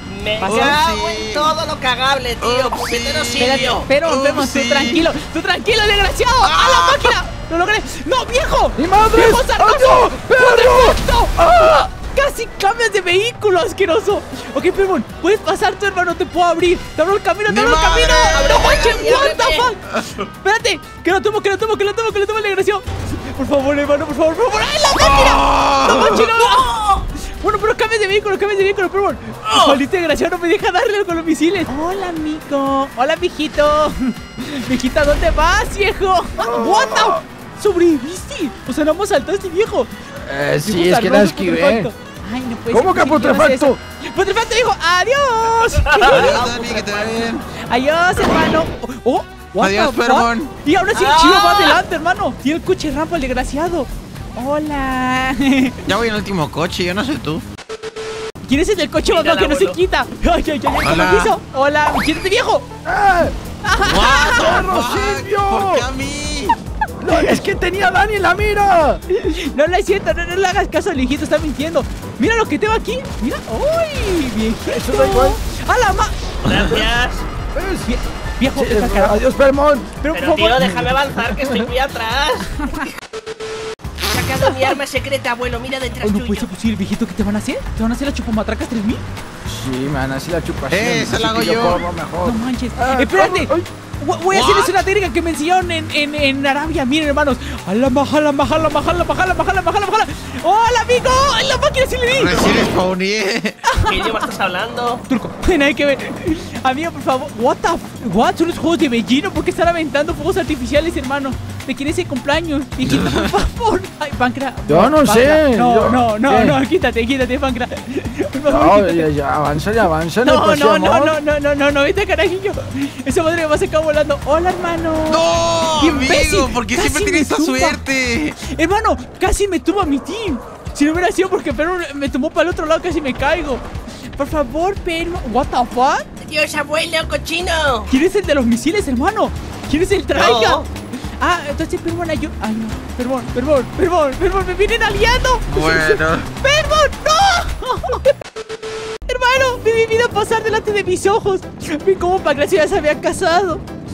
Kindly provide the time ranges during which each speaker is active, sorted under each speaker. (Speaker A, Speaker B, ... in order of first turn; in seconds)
Speaker A: 0.1-3.9, 6.4-6.9, 18.3-19.7, 26.4-27.0, 29.4-29.8, 45.7-47.3, 50.9-51.8, 59.1-59.8, 76.5-77.2, 80.1-82.6, 84.0-86.5, 103.9-105.0, 136.2-137.9, 140.1-140.7
Speaker B: 0.4-0.8, 3.4-39.9, 40.6-46.4, 47.5-55.9, 58.4-62.7, 63.6-64.6, 69.1-76.1, 77.8-79.2, 80.0-80.8, 82.6-82.9, 84.4-84.8, 86.0-89.0, 92.2-102.5, 103.6-104.3, 105.1-119.1, 120.2-127.8, 128.4-133.6, 134.1-136.1, 137.9-140.7, 141.2-148.1, 149.1-153.6
Speaker C: 0.4-1.5, 2.4-5.1, 6.6-7.0, 17.5-18.6, 25.0-26.2, 46.0-47.4, 49.6-50.5, 55.9-57.5, 60.8-61.3, 63.9-66.6, 76.5-76.8, 90.7-91.9, 94.3-94.9, 102.1-103.6, 112.8-113.3, 125.1-128.4, 145.5-146.3
Speaker D: 8.8-11.8, 36.4-37.2, 40.2-41.9, 42.7-43.8, 62.9-63.4, 64.4-65.9, 67.0-69.0, 74.6-75.4, 77.5-77.9, 78.5-80.0, 80.6-81.6, 89.5-93.7, 114.7-116.6, 118.5-121.2